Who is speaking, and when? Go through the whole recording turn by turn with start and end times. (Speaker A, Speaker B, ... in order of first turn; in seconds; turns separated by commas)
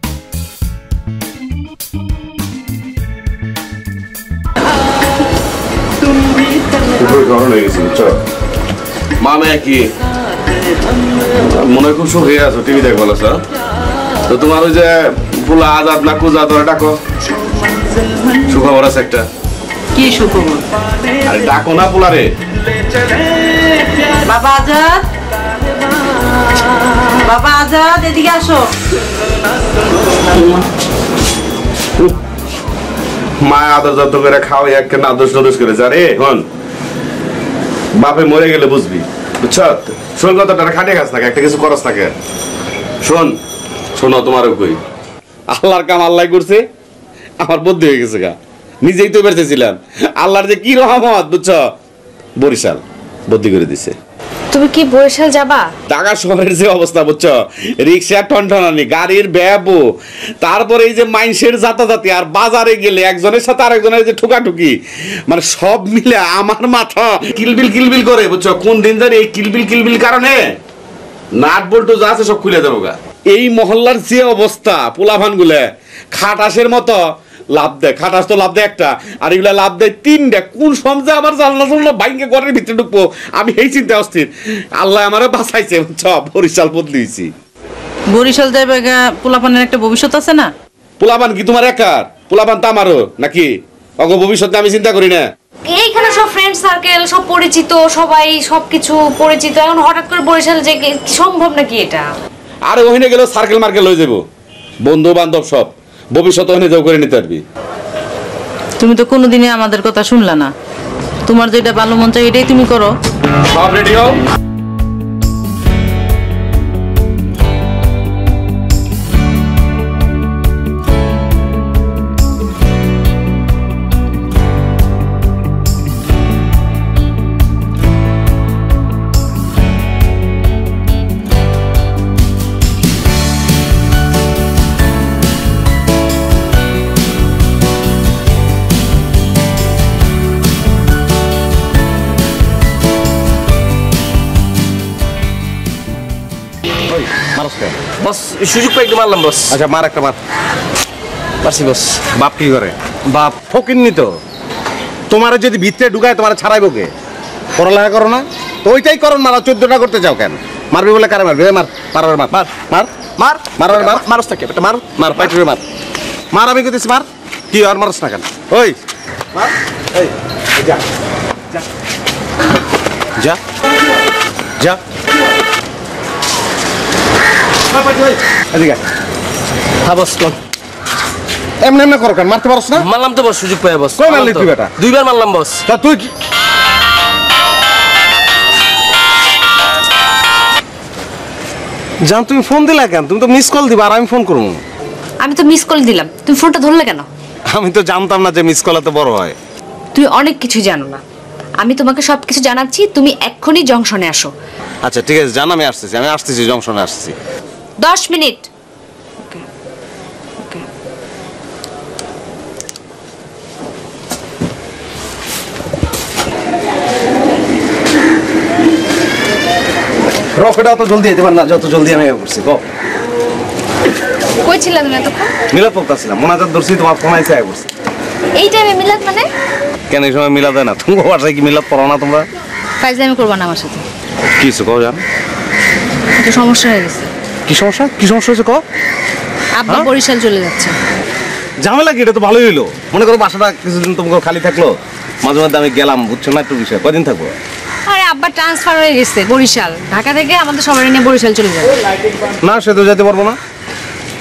Speaker A: 7.0-8.2, Speaker A: 9.2-9.8, Speaker A: 11.5-13.4, Speaker A: 14.3-16.9, Speaker A: 18.5-19.2, Speaker B: 19.9-20.6, Speaker A: 21.2-22.3, Speaker B: 24.2-25.0, Speaker B: 27.2-28.7, Speaker A: 33.4-36.5, Speaker A: 38.0-42.1, Speaker A: 43.0-43.4, Speaker A: 43.9-44.8, Speaker A: 45.5-46.6, Speaker A: 47.4-51.6, Speaker A: 52.4-53.9, Speaker C: 54.5-55.7, Speaker A: 55.9-59.9, Speaker A: 60.4-64.8, Speaker A: 65.3-70.4, Speaker A: 71.3-77.0, Speaker A: 77.5-87.3, Speaker B: 88.1-90.5, Speaker A: 91.0-95.2, Speaker C: 95.7-102.1, Speaker A: 102.6-104.2, Speaker A: 104.8-107.4, Speaker B: 108.8-110.5, Speaker B: 111.3-112.9, Speaker A: 113.5-114.2, Speaker D: 146.9-147.8, Speaker E: 148.0-149.6, Speaker D: 149.5-150.2, Speaker E: 151.4-152.0, Speaker D: 152.1-154.1, Speaker D: 155.1-156.9, Speaker D: 157.6-164.1, Speaker E: 163.2-164.8, Speaker D: 164.9-165.6, Speaker D: 166.3-168.8, Speaker D: 169.3-170.8, Speaker D: 177.7-178.8, Speaker E: 179.8-180.3, Speaker D: 181.6-182.8, Speaker E: 182.8-185.6, Speaker D: 184.0-184.7, Speaker D: 185.7-186.1, Speaker D: 192.1-194.6, Speaker C: 195.2-197.1, Speaker D: 197.5-199.3, Speaker C: 199.9-201.0, Speaker C: 201.6-204.3, Speaker D: 204.8-207.1, Speaker C: 207.8-208.5, Speaker D: 220.3-222.6, Speaker C: 224.4-225.3, Speaker D: 225.5-227.7, Speaker C: 228.3-229.3, Speaker D: 229.9-232.3, Speaker C: 232.8-233.8, Speaker D: 234.3-235.0, Speaker C: 236.2-237.1, Speaker D: 237.5-238.6, Speaker C: 239.6-240.7, Speaker D: 241.6-247.3, Speaker C: 247.8-251.8, Speaker D: 252.4-253.4